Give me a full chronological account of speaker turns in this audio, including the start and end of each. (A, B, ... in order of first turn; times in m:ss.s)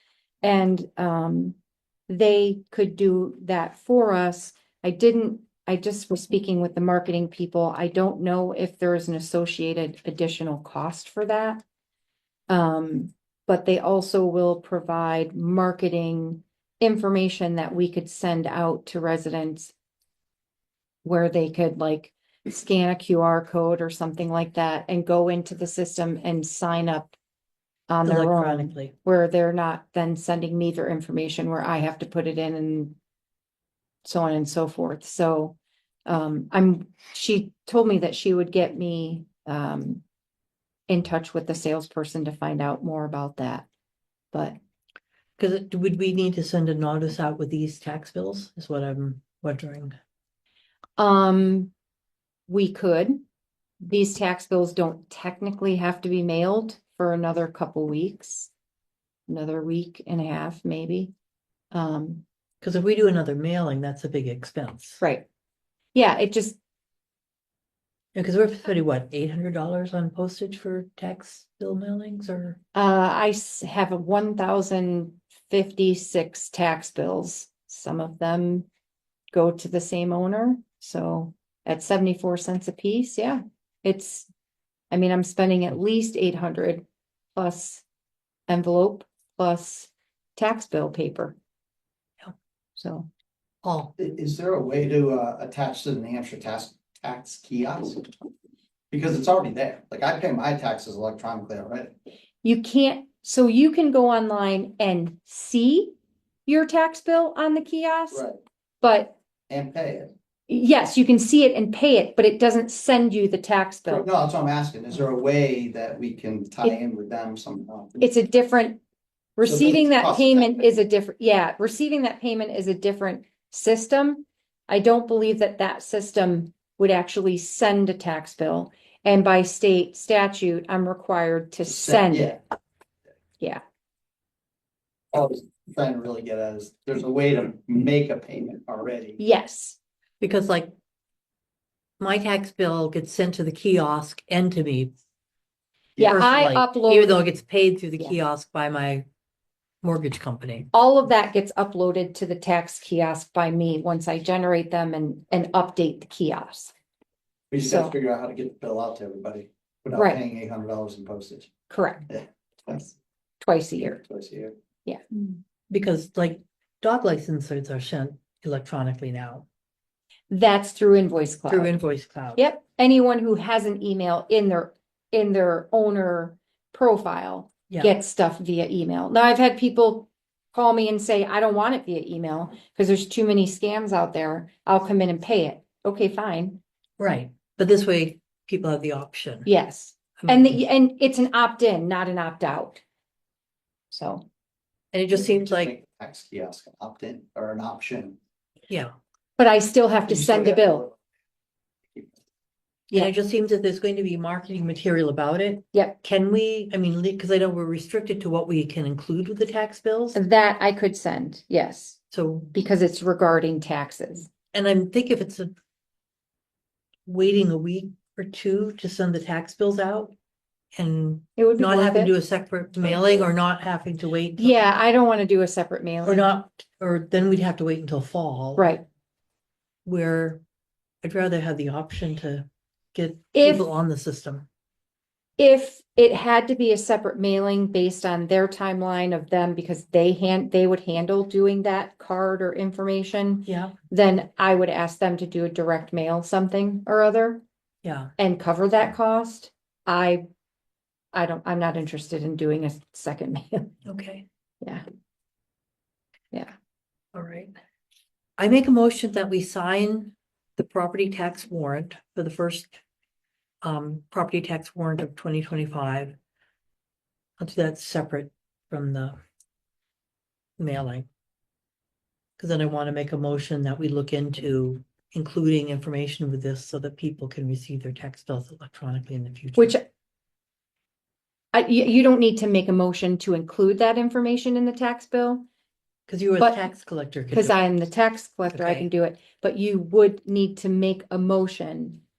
0:00.4-0:01.6 A
0:02.1-0:11.6 A
0:12.5-0:19.7 A
0:21.0-0:27.1 A
0:27.9-0:33.0 A
0:28.0-0:28.9 B
0:34.0-0:40.0 A
0:40.9-0:43.7 A
0:44.3-0:44.6 A
0:45.4-0:49.9 B
0:51.0-0:51.7 A
0:52.5-0:53.2 A
0:53.8-0:58.5 A
0:59.3-1:01.1 A
1:01.7-1:02.2 A
1:02.6-1:05.0 B
1:05.0-1:05.2 A
1:05.9-1:06.6 A
1:08.1-1:12.6 B
1:12.7-1:18.7 A
1:19.3-1:24.3 A
1:24.9-1:27.8 A
1:28.5-1:31.4 A
1:32.8-1:33.1 A
1:33.6-1:33.9 B
1:34.0-1:38.1 C
1:38.9-1:41.9 C
1:42.4-1:45.9 A
1:46.4-1:48.2 A
1:48.1-1:48.4 C
1:48.8-1:49.2 A
1:49.5-1:50.1 C
1:50.5-1:54.1 A
1:53.9-1:58.1 C
1:58.0-1:58.8 A
1:59.4-2:12.4 A
1:59.4-2:00.6 C
2:11.7-2:12.4 C
2:15.1-2:19.2 C
2:19.2-2:19.8 A
2:20.2-2:20.7 B
2:22.0-2:24.9 B
2:26.0-2:27.2 A
2:26.0-2:29.0 B
2:29.8-2:30.7 B
2:30.7-2:36.7 A
2:37.5-2:41.5 C
2:37.6-2:37.9 A
2:40.0-2:40.2 A
2:41.7-2:42.1 A
2:42.1-2:42.9 C
2:43.4-2:44.0 A
2:44.0-2:44.5 C
2:45.7-2:49.4 B
2:50.3-2:51.8 A
2:51.5-2:52.4 B
2:52.3-3:06.6 A
3:07.0-3:09.5 B
3:09.4-3:12.8 A
3:10.2-3:10.6 B
3:13.9-3:14.2 A
3:14.9-3:15.7 B
3:15.1-3:18.2 C
3:19.4-3:20.9 A
3:20.1-3:21.0 C
3:22.9-3:30.2 B
3:30.1-3:32.0 A
3:32.1-3:32.5 B
3:32.5-3:34.3 A
3:34.5-3:35.5 B
3:37.0-3:40.1 B
3:40.7-3:44.6 B
3:41.4-3:42.1 A
3:44.4-3:46.3 A
3:46.0-3:48.7 B
3:48.6-3:48.8 A
3:49.8-3:50.4 B
3:51.0-3:54.5 B
3:53.3-3:53.7 A
3:55.4-4:07.4 A
4:03.5-4:03.7 B
4:07.8-4:08.1 B
4:08.2-4:10.2 A
4:11.1-4:13.7 A
4:13.8-4:14.2 B
4:17.1-4:17.5 B
4:18.4-4:22.8 B
4:23.6-4:26.2 B
4:27.4-4:29.2 B
4:30.6-4:31.0 B
4:32.4-4:39.8 B
4:39.6-4:39.8 A
4:41.5-4:45.4 A
4:46.1-4:47.6 B
4:47.3-4:52.0 A
4:48.5-4:48.8 B